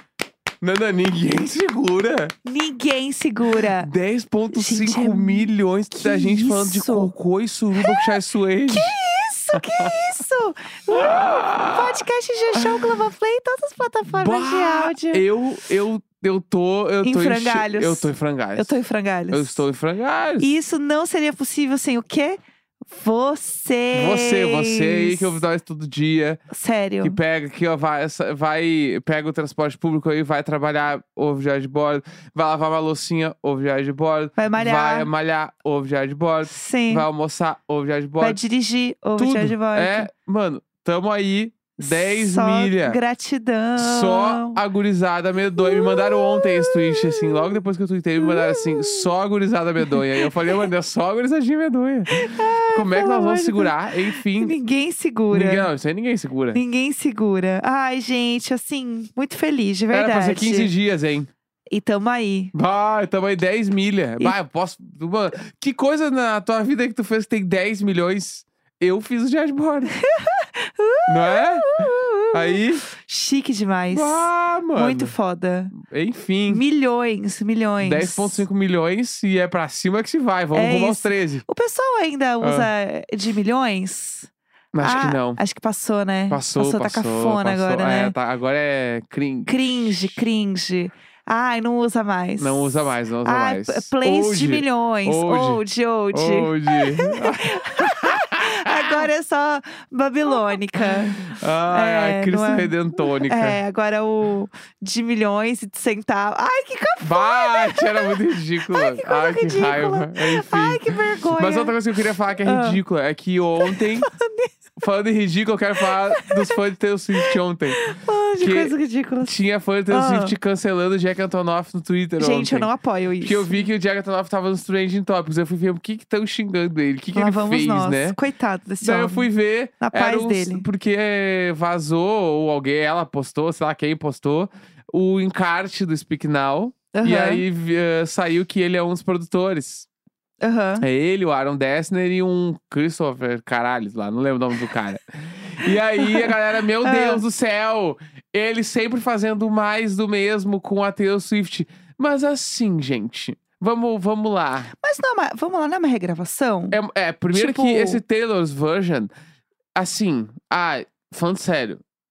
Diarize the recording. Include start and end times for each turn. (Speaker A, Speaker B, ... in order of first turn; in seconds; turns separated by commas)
Speaker A: 0.6-2.3, Speaker B: 2.5-3.9, Speaker A: 3.6-8.9, Speaker B: 4.5-7.1, Speaker B: 7.8-8.2, Speaker B: 8.7-15.2, Speaker A: 9.5-9.9, Speaker A: 10.9-12.0, Speaker A: 12.6-12.9, Speaker A: 14.1-18.7, Speaker B: 17.0-19.6, Speaker A: 19.3-20.5, Speaker B: 20.4-25.4, Speaker A: 23.9-26.4, Speaker B: 26.5-27.2, Speaker A: 27.0-38.4, Speaker B: 34.4-35.1, Speaker B: 36.5-37.1, Speaker B: 38.2-40.1, Speaker A: 39.2-43.0, Speaker B: 41.8-44.6, Speaker A: 43.8-54.5, Speaker B: 45.6-47.6, Speaker B: 48.2-49.1, Speaker B: 49.9-50.7, Speaker B: 52.1-55.7, Speaker A: 55.3-56.6, Speaker B: 56.5-60.7, Speaker A: 59.9-61.3, Speaker B: 61.7-62.5, Speaker A: 62.5-70.0, Speaker B: 70.0-75.7, Speaker A: 71.1-72.8, Speaker A: 73.9-75.2, Speaker A: 75.7-76.6, Speaker B: 76.5-78.5, Speaker A: 77.8-81.5, Speaker B: 80.5-84.3, Speaker A: 82.4-82.7, Speaker A: 84.7-85.4, Speaker B: 84.8-88.2, Speaker A: 86.3-89.6, Speaker B: 89.5-111.8, Speaker A: 92.4-99.1, Speaker A: 100.8-103.6, Speaker A: 107.0-114.1, Speaker B: 112.4-112.8, Speaker B: 113.6-114.5, Speaker A: 114.8-122.7, Speaker B: 116.1-116.6, Speaker B: 117.2-119.3, Speaker B: 119.9-120.3, Speaker B: 122.2-123.6, Speaker A: 123.2-128.2, Speaker B: 127.2-129.3, Speaker A: 128.8-139.9, Speaker B: 129.8-130.7, Speaker B: 136.9-137.4, Speaker B: 140.4-140.8, Speaker A: 140.8-154.7, Speaker B: 146.0-147.2, Speaker B: 154.8-156.8, Speaker A: 156.7-159.1, Speaker B: 157.3-158.0, Speaker A: 159.8-161.8